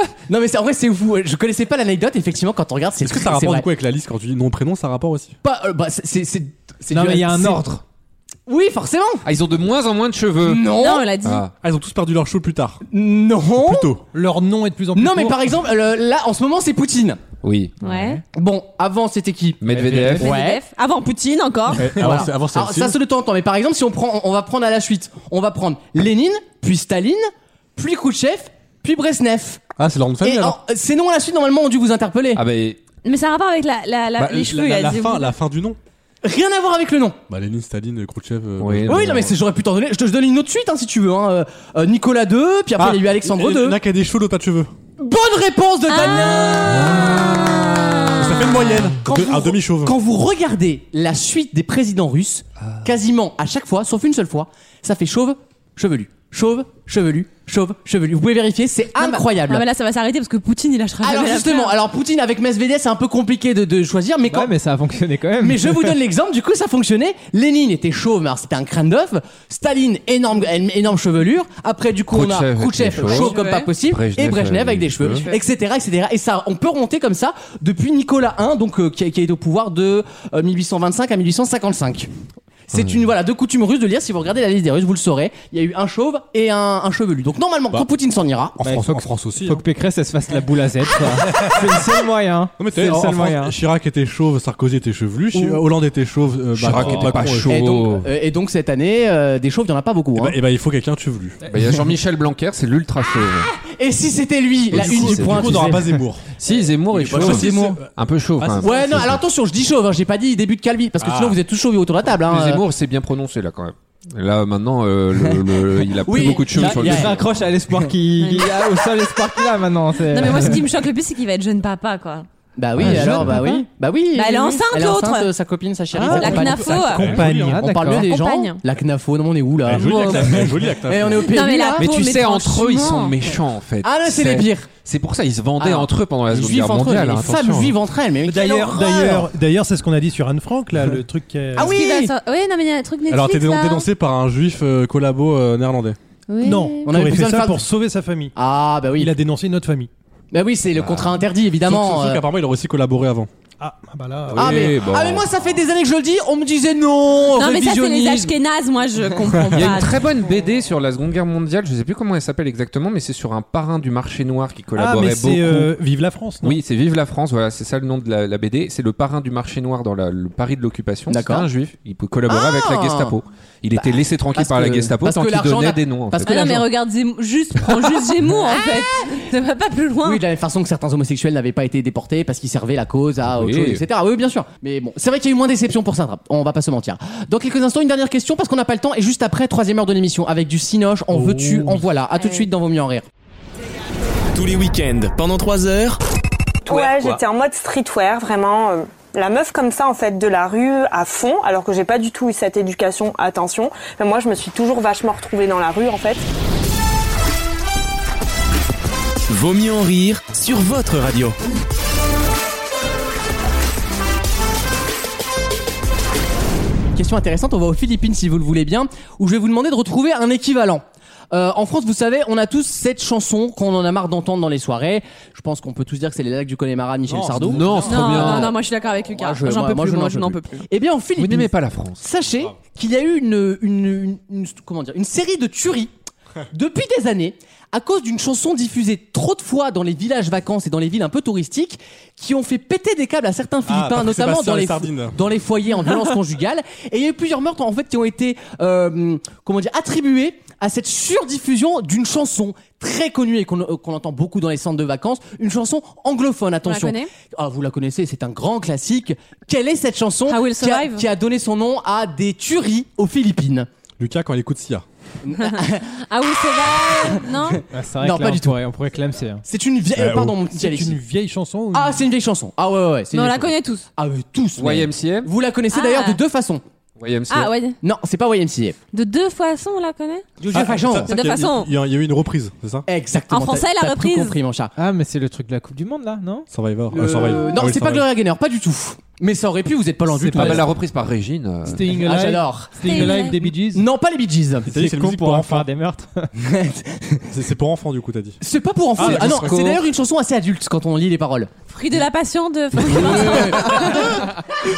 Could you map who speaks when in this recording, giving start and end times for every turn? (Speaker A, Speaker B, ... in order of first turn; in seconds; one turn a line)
Speaker A: 0.3-3.6
Speaker B: 3.0-5.3
Speaker A: 5.4-7.7
Speaker C: 6.9-7.8
Speaker A: 8.5-9.2
Speaker D: 9.2-11.5
Speaker A: 10.4-11.1
Speaker E: 10.7-11.4
Speaker B: 11.6-12.8
Speaker A: 12.9-14.0
Speaker B: 13.6-14.0
Speaker F: 14.1-15.4
Speaker A: 14.9-17.2
Speaker D: 17.4-18.2
Speaker E: 17.8-18.2
Speaker A: 18.3-20.6
Speaker D: 19.6-20.4
Speaker C: 19.7-20.2
Speaker E: 20.2-21.9
Speaker B: 21.8-23.0
Speaker A: 21.9-29.6
Speaker B: 29.8-30.6
Speaker A: 30.2-32.4
Speaker D: 32.3-32.8
Speaker E: 33.0-35.3
Speaker B: 34.2-35.8
Speaker A: 36.2-37.2
Speaker B: 37.3-39.3
Speaker D: 38.6-39.3
Speaker A: 38.9-43.8
Speaker B: 42.8-44.7
Speaker A: 45.0-59.6
Speaker E: 45.9-48.6
Speaker D: 46.7-47.8
Speaker B: 48.2-50.0
Speaker E: 58.9-61.7
Speaker A: 61.0-64.5
Speaker C: 64.3-66.0
Speaker A: 65.4-82.1
Speaker D: 72.1-75.2
Speaker E: 73.0-73.7
Speaker A: 82.7-88.6
Speaker D: 82.7-83.0
Speaker B: 88.6-89.6
Speaker C: 88.6-93.5
Speaker B: 92.6-97.5
Speaker A: 95.3-95.6
Speaker D: 96.5-98.1
Speaker A: 96.7-100.4
Speaker B: 100.1-101.4
Speaker D: 101.5-103.5
Speaker A: 103.0-105.9
Speaker D: 104.7-105.7
Speaker B: 104.7-106.3
Speaker D: 106.4-109.2
Speaker B: 106.9-108.9
Speaker A: 106.9-107.8
Speaker A: 108.6-112.6
Speaker B: 111.0-111.4
Speaker D: 112.2-117.3
Speaker A: 115.9-117.2
Speaker C: 116.5-120.6
Speaker E: 118.2-118.5
Speaker E: 120.0-122.3
Speaker A: 122.6-131.9
Speaker D: 122.8-123.2
Speaker B: 122.8-123.2
Speaker C: 122.8-123.6
Speaker E: 124.1-125.3
Speaker C: 125.9-126.4
Speaker B: 126.0-127.6
Speaker E: 126.1-127.1
Speaker C: 127.1-128.0
Speaker F: 127.2-127.5
Speaker E: 127.8-128.6
Speaker B: 129.6-131.3
Speaker D: 130.1-130.4
Speaker E: 131.2-133.1
Speaker D: 131.8-137.8
Speaker A: 133.8-134.7
Speaker A: 135.6-139.3
Speaker F: 138.2-141.7
Speaker A: 141.5-142.1
Speaker E: 141.6-143.9
Speaker B: 143.1-146.0
Speaker E: 146.3-146.9
Speaker F: 146.4-148.3
Speaker A: 146.8-147.6
Speaker A: 148.3-149.1
Speaker F: 148.9-149.9
Speaker A: 150.3-152.2
Speaker D: 150.8-151.2
Speaker B: 151.6-153.3
Speaker F: 153.6-154.7
Speaker D: 154.3-155.6
Speaker A: 154.3-158.3
Speaker E: 157.3-160.2
Speaker D: 159.5-165.7
Speaker F: 164.7-166.6
Speaker D: 166.4-176.6
Speaker A: 171.1-171.5
Speaker A: 172.3-173.1
Speaker A: 173.8-176.7
Speaker E: 176.2-180.2
Speaker A: 178.5-179.1
Speaker A: 180.0-193.1
Speaker D: 183.2-183.8
Speaker F: 191.1-191.8
Speaker E: 192.1-192.5
Speaker G: 194.3-196.0
Speaker G: 196.6-197.2
Speaker H: 196.7-206.3
Speaker G: 209.3-211.3
Speaker A: 216.9-235.9
Speaker B: 227.1-228.3
Speaker D: 227.5-228.5
Speaker E: 227.8-230.6
Speaker D: 231.2-232.0
Speaker A: 236.5-263.7
Speaker B: 243.7-245.2
Speaker E: 256.6-257.1
Speaker E: 260.3-261.0
Speaker B: 264.0-264.8
Speaker A: 265.2-266.0
Speaker E: 265.4-267.6
Speaker A: 266.7-268.6
Speaker C: 267.7-269.4
Speaker A: 269.5-271.0
Speaker B: 269.9-270.4
Speaker F: 270.5-272.0
Speaker A: 271.7-276.6
Speaker E: 273.1-273.8
Speaker D: 274.6-275.3
Speaker E: 275.7-276.2
Speaker D: 277.0-277.5
Speaker E: 277.3-277.8
Speaker A: 277.8-278.8
Speaker E: 278.9-280.2
Speaker A: 280.4-281.3
Speaker B: 280.5-282.9
Speaker E: 281.1-281.7
Speaker A: 282.9-284.7
Speaker E: 283.3-284.4
Speaker C: 284.8-286.5
Speaker B: 286.5-288.1
Speaker A: 286.9-290.7
Speaker F: 290.1-290.6
Speaker D: 290.3-292.0
Speaker F: 291.6-293.8
Speaker A: 292.0-294.7
Speaker E: 292.8-293.5
Speaker B: 294.7-295.7
Speaker C: 294.7-296.3
Speaker A: 296.4-297.3
Speaker B: 297.3-298.4
Speaker A: 298.4-301.5
Speaker B: 299.0-299.5
Speaker D: 299.0-299.9
Speaker E: 301.7-304.1
Speaker A: 302.8-304.3
Speaker D: 302.9-303.9